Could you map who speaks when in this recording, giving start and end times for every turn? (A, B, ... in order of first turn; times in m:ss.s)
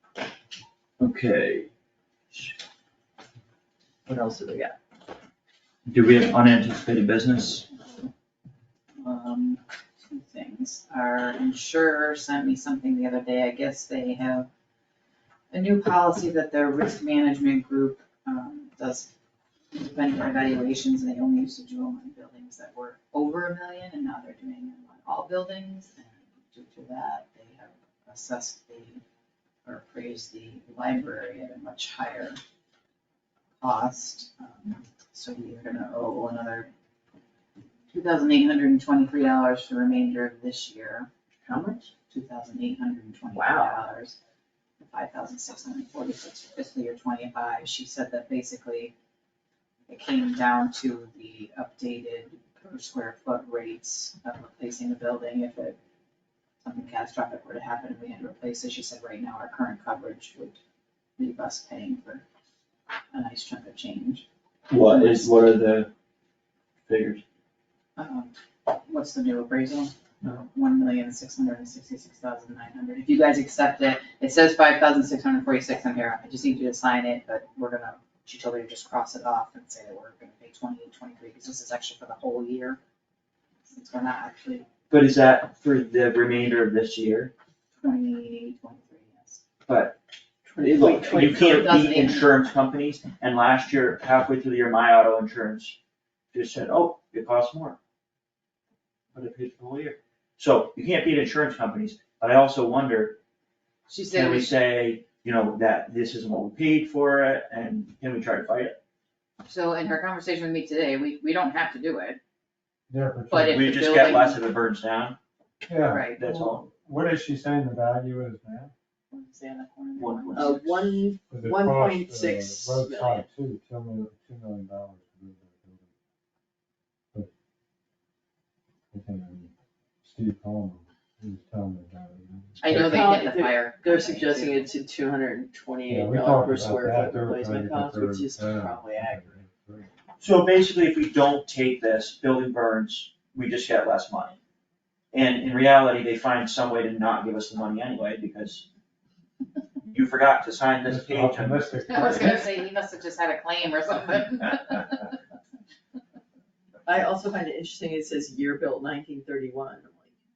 0:01.0-0:01.7 A
0:04.0-0:04.8 B
0:05.9-0:07.6 A
0:09.0-0:14.5 C
0:15.5-0:19.1 C
0:19.7-0:29.0 C
0:29.6-0:32.4 C
0:33.6-0:36.7 C
0:37.9-0:41.1 C
0:41.4-0:41.9 B
0:42.1-0:44.2 C
0:43.3-0:43.8 B
0:44.8-0:48.9 C
0:49.9-0:55.8 C
0:56.6-1:00.6 C
1:01.2-1:02.2 C
1:03.1-1:04.2 C
1:04.7-1:05.9 A
1:04.8-1:05.3 C
1:06.9-1:07.2 A
1:08.0-1:22.8 C
1:23.6-1:24.7 C
1:24.9-1:27.3 A
1:27.8-1:29.4 C
1:29.7-1:30.0 A
1:30.4-1:31.7 B
1:30.6-1:35.8 A
1:31.3-1:32.5 C
1:36.3-1:37.8 A
1:39.1-1:43.2 A
1:43.9-1:44.5 C
1:44.1-1:48.8 A
1:49.4-1:52.2 C
1:52.9-1:53.6 D
1:53.3-1:54.4 C
1:53.4-1:55.2 A
1:55.7-1:58.7 D
1:55.8-1:56.2 C
1:56.2-1:56.6 A
1:59.1-2:00.8 C
2:00.0-2:00.9 A
2:00.3-2:03.2 B
2:01.3-2:05.9 D
2:08.9-2:09.5 D
2:10.0-2:13.1 D
2:12.6-2:14.7 C
2:12.7-2:19.3 B
2:15.9-2:19.9 D
2:20.2-2:24.4 A
2:25.1-2:28.7 A
2:29.9-2:32.0 A
2:30.8-2:32.5 D
2:31.9-2:35.1 C
2:36.8-2:40.1 B